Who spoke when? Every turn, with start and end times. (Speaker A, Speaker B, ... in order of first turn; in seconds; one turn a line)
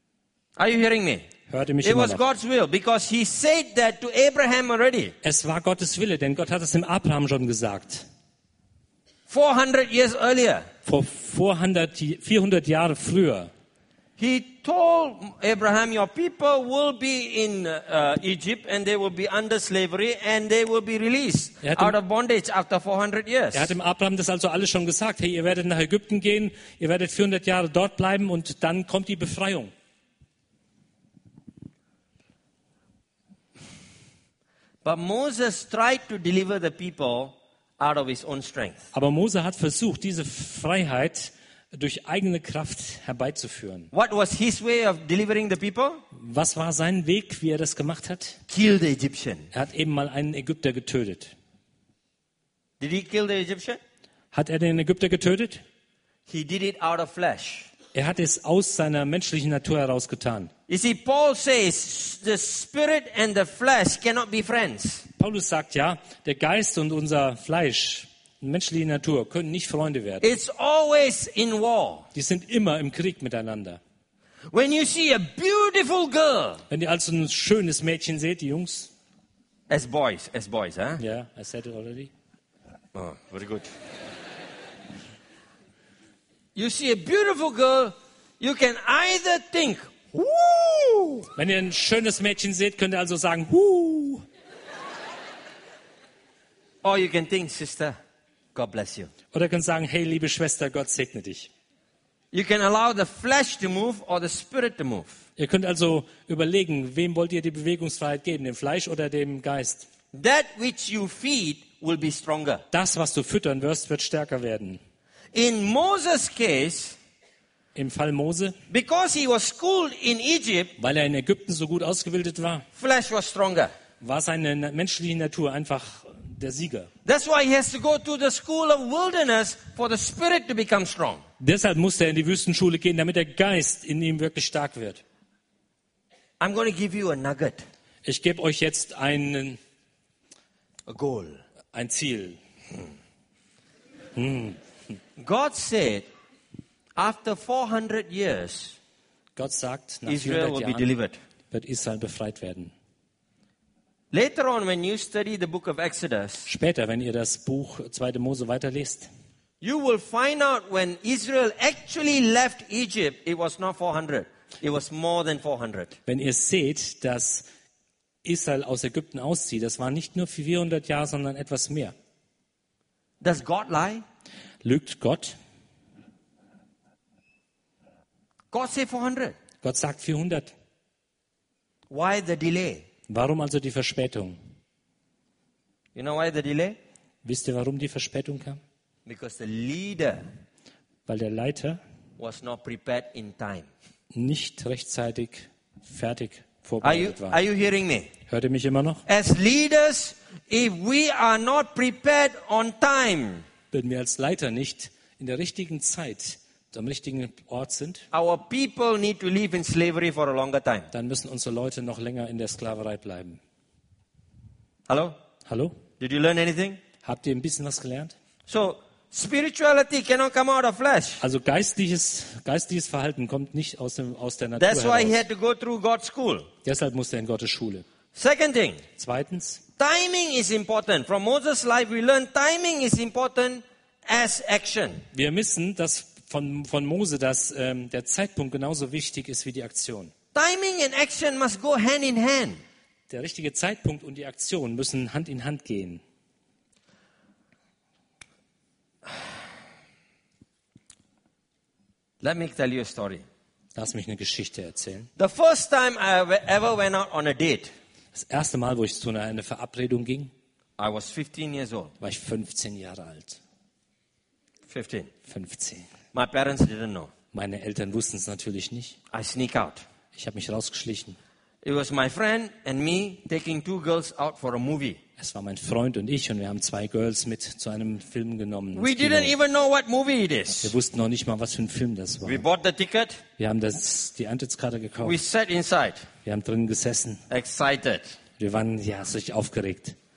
Speaker A: 0.6-1.3
Speaker B: 1.5-2.2
Speaker A: 1.8-5.1
Speaker B: 5.2-8.1
Speaker A: 9.3-10.7
Speaker B: 10.8-13.5
Speaker A: 14.2-23.7
Speaker B: 21.6-21.9
Speaker B: 23.5-29.7
Speaker A: 34.8-38.9
Speaker B: 38.9-43.9
Speaker A: 43.9-46.0
Speaker B: 46.1-48.4
Speaker A: 48.5-49.5
Speaker B: 49.5-51.3
Speaker A: 52.8-53.8
Speaker B: 54.3-55.6
Speaker A: 56.3-57.7
Speaker B: 57.9-60.5
Speaker A: 60.7-65.0
Speaker B: 65.2-70.3
Speaker A: 70.2-72.1
Speaker B: 72.1-73.8
Speaker A: 74.5-76.6
Speaker B: 76.7-78.9
Speaker A: 79.7-81.0
Speaker B: 81.0-82.1
Speaker A: 82.9-83.7
Speaker A: 86.5-91.3
Speaker B: 91.3-94.2
Speaker A: 96.8-98.0
Speaker A: 98.5-99.1
Speaker B: 99.3-101.5
Speaker A: 102.3-105.2
Speaker B: 105.4-109.9
Speaker A: 110.1-112.6
Speaker B: 112.7-114.8
Speaker A: 115.3-117.0
Speaker B: 117.7-118.6
Speaker A: 118.7-120.7
Speaker B: 120.8-122.7
Speaker A: 122.8-123.7
Speaker B: 124.0-126.9
Speaker A: 127.0-131.2
Speaker B: 131.4-135.0
Speaker A: 136.4-137.6
Speaker B: 138.0-139.6
Speaker A: 140.9-141.4
Speaker B: 141.7-142.4
Speaker B: 144.1-144.6
Speaker A: 145.2-146.1
Speaker A: 146.9-148.8
Speaker B: 149.3-150.9
Speaker A: 150.1-151.2
Speaker B: 151.5-152.7
Speaker A: 154.1-156.5
Speaker B: 156.4-159.1
Speaker A: 159.6-166.0
Speaker B: 166.1-167.4
Speaker B: 168.2-171.9
Speaker A: 173.2-174.0
Speaker B: 174.6-175.3
Speaker A: 178.5-179.3
Speaker B: 179.6-180.5
Speaker A: 181.9-182.8
Speaker B: 183.1-184.4
Speaker A: 185.9-186.8
Speaker B: 187.2-188.6
Speaker A: 189.1-190.3
Speaker B: 191.1-191.8
Speaker A: 192.2-193.7
Speaker B: 194.1-197.4
Speaker A: 196.8-198.1
Speaker B: 198.3-199.0
Speaker A: 199.1-203.4
Speaker B: 203.7-208.0
Speaker A: 208.1-210.9
Speaker B: 210.9-213.4
Speaker A: 214.9-215.2
Speaker B: 215.4-215.8
Speaker A: 216.0-216.8
Speaker B: 217.0-218.1
Speaker A: 218.5-221.2
Speaker B: 221.2-225.2
Speaker A: 224.6-226.5
Speaker B: 226.6-227.8
Speaker A: 228.1-228.8
Speaker B: 229.0-229.6
Speaker A: 229.8-235.0
Speaker B: 235.1-240.1
Speaker A: 240.3-242.6
Speaker B: 243.1-246.0
Speaker A: 252.2-253.2
Speaker B: 253.7-255.1
Speaker A: 255.2-257.7
Speaker B: 258.1-260.3
Speaker A: 260.8-261.9
Speaker B: 262.0-263.4
Speaker A: 264.7-265.1
Speaker B: 265.3-265.9
Speaker A: 266.1-267.1
Speaker B: 267.3-269.0
Speaker A: 269.1-269.8
Speaker B: 270.1-271.2
Speaker A: 271.6-275.0
Speaker B: 275.2-279.3
Speaker A: 278.7-280.7
Speaker B: 280.6-282.4
Speaker A: 282.2-283.2
Speaker B: 283.4-285.2
Speaker A: 285.0-286.1
Speaker B: 286.2-287.2
Speaker A: 287.3-288.1
Speaker B: 288.4-289.9